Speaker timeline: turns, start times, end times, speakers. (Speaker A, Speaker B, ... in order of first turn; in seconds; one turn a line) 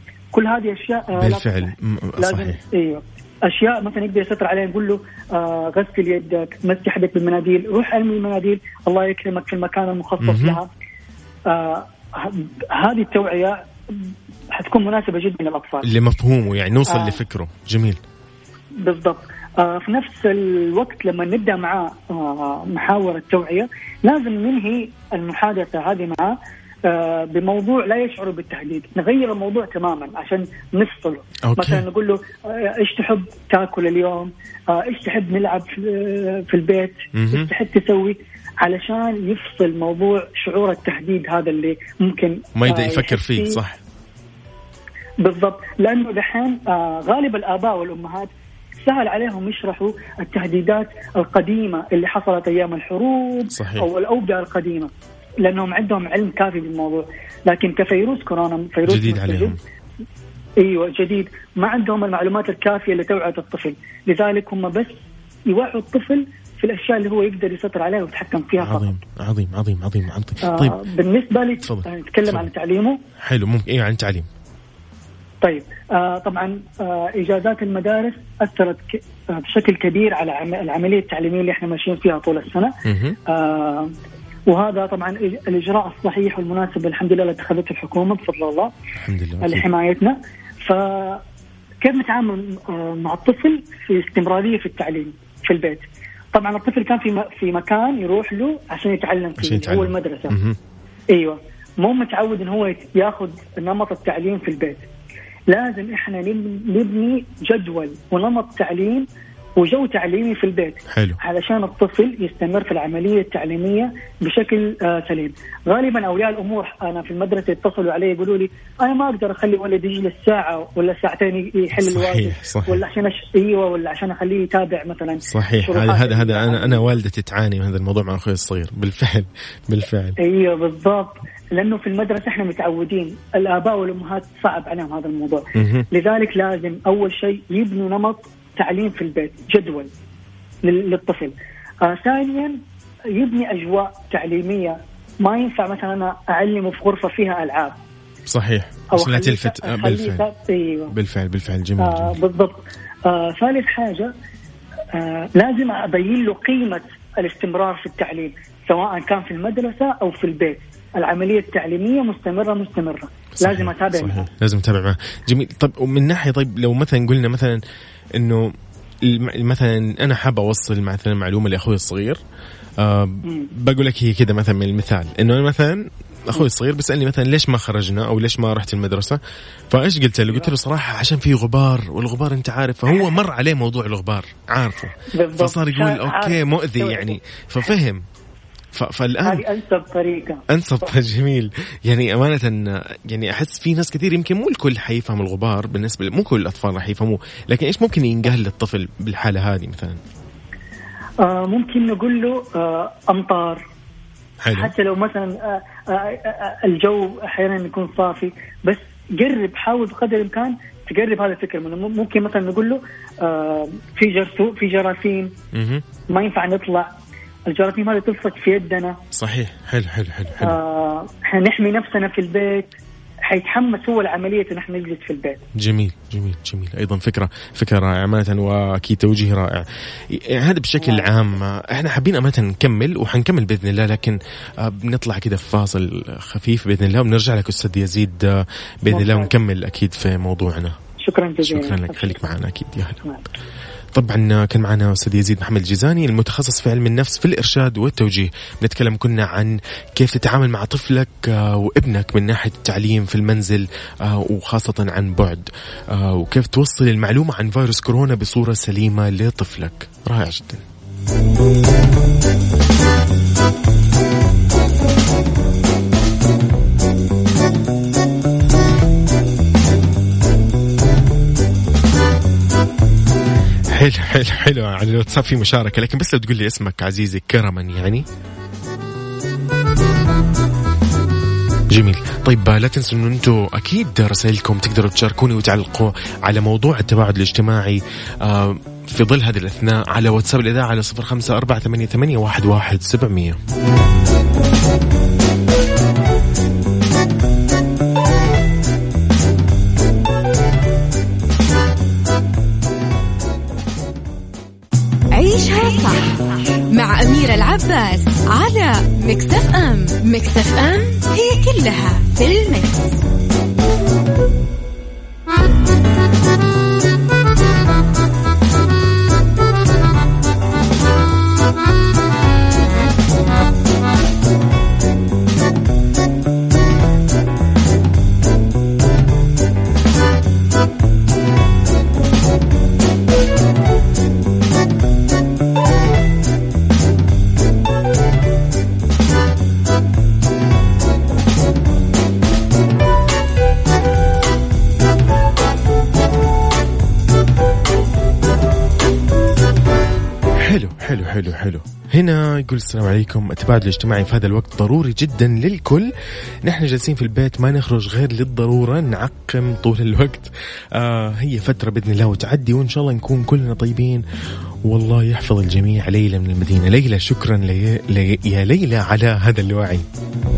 Speaker A: 0.3-10.7
Speaker B: 1.1-2.6
Speaker B: 10.2-10.6
Speaker A: 11.5-15.9
Speaker B: 15.8-18.0
Speaker A: 16.9-17.2
Speaker A: 18.8-43.6
Speaker B: 31.5-31.9
Speaker B: 37.1-37.5
Speaker B: 42.6-43.8
Speaker A: 45.2-48.3
Speaker A: 48.8-54.9
Speaker B: 53.5-53.9
Speaker A: 55.4-59.6
Speaker B: 58.9-59.6
Speaker A: 60.6-65.0
Speaker A: 65.5-68.9
Speaker B: 68.6-70.8
Speaker A: 70.4-73.0
Speaker B: 71.7-72.5
Speaker B: 73.2-74.3
Speaker A: 75.4-82.7
Speaker B: 82.9-83.2
Speaker A: 83.3-83.9
Speaker A: 84.5-88.7
Speaker B: 89.0-89.7
Speaker A: 89.4-91.2
Speaker A: 91.8-100.4
Speaker B: 99.4-100.6
Speaker A: 101.1-104.9
Speaker A: 105.5-126.9
Speaker B: 110.9-111.2
Speaker B: 121.8-122.8
Speaker B: 125.3-130.2
Speaker A: 130.2-139.9
Speaker B: 135.6-135.9
Speaker A: 140.6-142.6
Speaker A: 143.2-147.8
Speaker B: 148.3-150.2
Speaker A: 148.9-150.9
Speaker B: 150.9-152.2
Speaker A: 151.8-154.1
Speaker A: 154.9-164.3
Speaker B: 163.4-167.6
Speaker B: 168.2-168.5
Speaker B: 169.0-172.2
Speaker B: 172.8-188.0
Speaker A: 173.2-173.5
Speaker A: 185.1-187.2
Speaker B: 188.7-189.4
Speaker A: 189.2-190.4
Speaker B: 190.5-200.0
Speaker A: 201.2-203.6
Speaker B: 204.4-204.7
Speaker A: 204.5-215.3
Speaker B: 215.5-215.8
Speaker A: 216.1-216.9
Speaker A: 217.5-219.0
Speaker B: 219.1-220.6
Speaker A: 220.4-222.8
Speaker A: 223.3-225.4
Speaker B: 225.6-240.8
Speaker A: 230.8-231.3
Speaker A: 238.9-239.3
Speaker A: 241.0-242.2
Speaker B: 241.4-243.0
Speaker B: 243.9-260.6
Speaker B: 273.7-278.1
Speaker B: 281.7-293.4
Speaker C: 305.1-306.2
Speaker C: 306.7-313.0
Speaker B: 350.4-355.9
Speaker B: 356.4-364.0
Speaker B: 364.7-369.9